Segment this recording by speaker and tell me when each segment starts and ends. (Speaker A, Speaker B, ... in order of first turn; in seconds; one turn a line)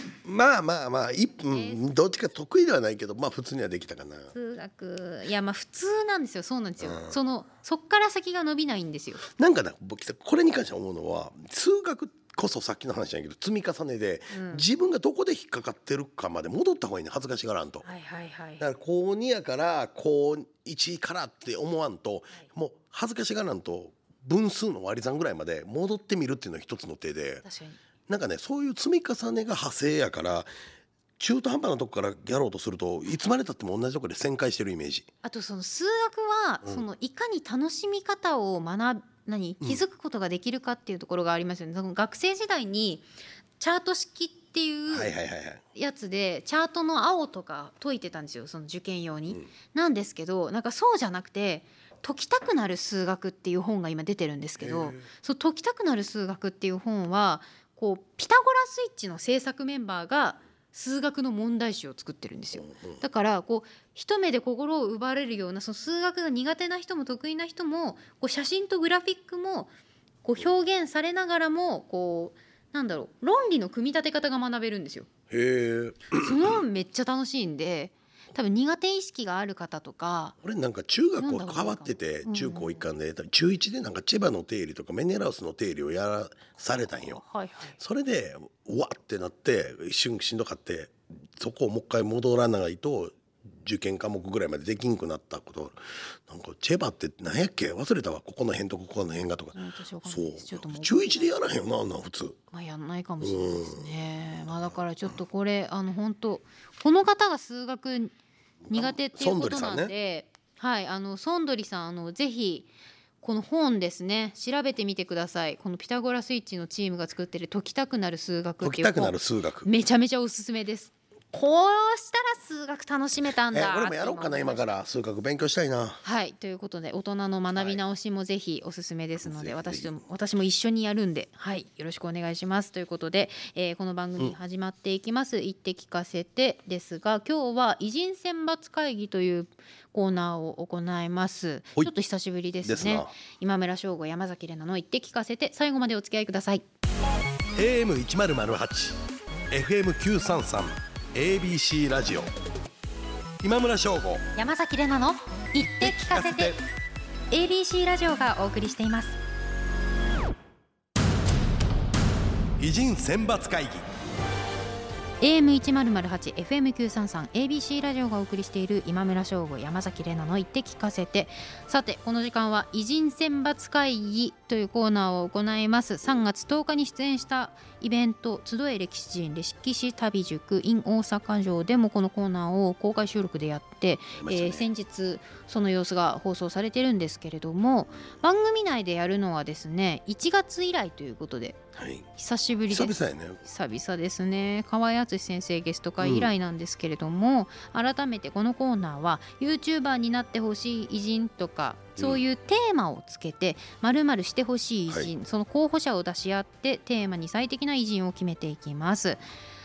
Speaker A: 0.2-4.3
Speaker B: 1.5-1.9
Speaker B: 4.3-9.2
Speaker A: 6.8-7.2
Speaker A: 9.3-17.9
Speaker B: 14.3-14.7
Speaker B: 17.8-18.7
Speaker A: 18.6-27.4
Speaker B: 27.4-27.8
Speaker A: 28.1-30.5
Speaker A: 31.2-35.1
Speaker B: 35.2-43.1
Speaker B: 43.6-45.1
Speaker A: 44.9-45.6
Speaker B: 45.8-69.7
Speaker A: 54.6-55.1
Speaker A: 62.6-63.0
Speaker B: 70.2-75.1
Speaker A: 75.3-76.6
Speaker B: 76.1-80.4
Speaker A: 80.4-87.2
Speaker B: 81.2-82.9
Speaker B: 87.0-87.8
Speaker A: 87.8-102.4
Speaker B: 99.5-101.3
Speaker B: 102.5-108.1
Speaker A: 103.2-104.0
Speaker A: 104.5-104.8
Speaker A: 108.7-109.9
Speaker B: 108.7-112.7
Speaker B: 113.2-124.7
Speaker A: 118.6-119.7
Speaker A: 123.5-126.0
Speaker B: 126.0-146.6
Speaker A: 127.5-127.8
Speaker A: 129.2-129.9
Speaker A: 142.6-143.1
Speaker A: 147.6-149.0
Speaker A: 149.5-152.3
Speaker A: 153.4-154.3
Speaker B: 154.4-156.6
Speaker A: 155.8-156.6
Speaker B: 157.3-159.2
Speaker A: 162.6-163.9
Speaker B: 165.2-191.6
Speaker A: 184.1-184.7
Speaker A: 191.8-192.1
Speaker B: 192.2-209.2
Speaker A: 192.7-193.4
Speaker A: 196.0-196.3